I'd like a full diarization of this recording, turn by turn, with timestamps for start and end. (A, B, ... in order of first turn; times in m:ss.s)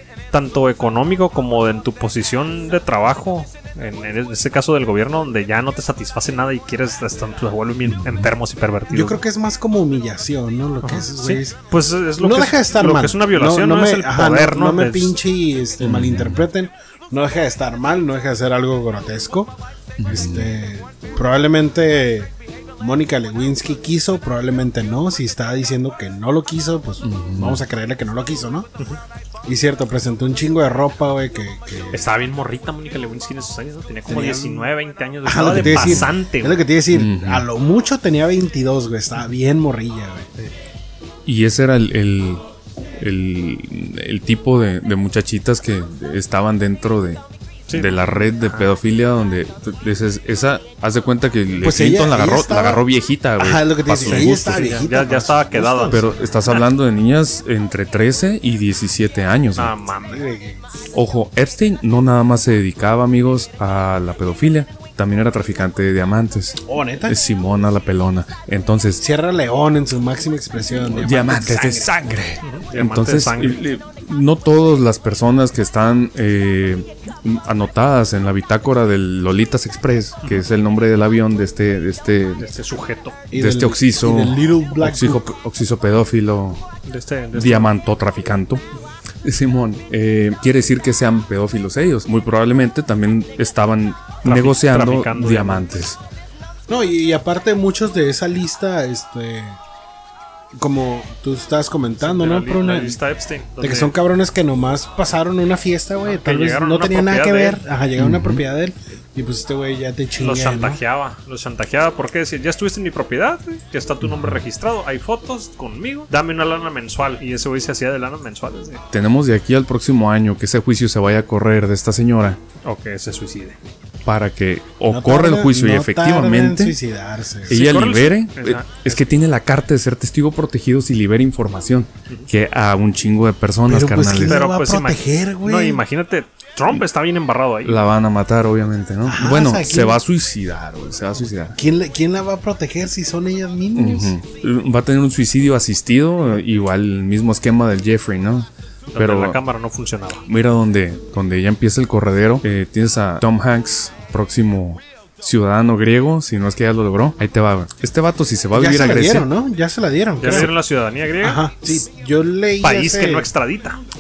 0:00.3-0:09.2 A
0:07.9-0:08.3 B
0:08.9-0:11.6 C
0:10.8-0:15.2 A
0:12.2-0:19.5 C
0:15.8-0:16.5 B
0:20.0-0:20.5 B
0:20.0-0:28.7 C
0:27.0-0:27.6 B
0:29.5-0:32.0 C
0:31.9-0:36.6 A
0:34.1-0:34.7 C
0:35.2-0:40.3 C
0:35.5-0:36.1 B
0:36.9-0:37.5 B
0:41.2-0:42.4 B
0:43.0-0:54.7 B
0:47.7-0:48.7 A
0:51.6-0:52.8 C
0:53.4-0:56.2 C
0:54.0-0:56.0 A
0:55.9-0:59.7 B
0:59.6-1:00.3 A
1:00.1-1:00.6 C
1:00.9-1:09.0 B
1:06.7-1:07.2 C
1:09.0-1:12.0 C
1:10.7-1:22.5 B
1:12.4-1:13.6 A
1:22.4-1:23.2 A
1:23.3-1:25.3 C
1:23.3-1:26.7 B
1:26.8-1:27.7 A
1:27.3-1:28.6 B
1:29.2-1:36.0 B
1:34.2-1:35.7 A
1:36.7-1:39.6 C
1:40.6-1:43.0 C
1:42.0-1:43.9 A
1:43.6-1:50.8 C
1:46.0-1:47.6 A
1:48.0-1:48.4 B
1:50.2-1:58.8 A
1:54.0-1:54.4 B
1:58.9-2:02.4 B
2:02.6-2:03.6 A
2:04.0-2:06.8 B
2:04.9-2:07.6 C
2:07.5-2:14.4 B
2:07.5-2:09.0 A
2:13.7-2:15.8 C
2:14.2-2:17.8 A
2:17.6-2:21.6 B
2:19.0-2:20.0 C
2:21.6-2:24.2 C
2:23.8-2:29.4 B
2:28.9-2:30.2 A
2:30.3-2:39.3 B
2:38.5-2:40.5 C
2:40.2-2:41.8 A
2:41.2-2:43.3 C
2:42.6-2:43.8 A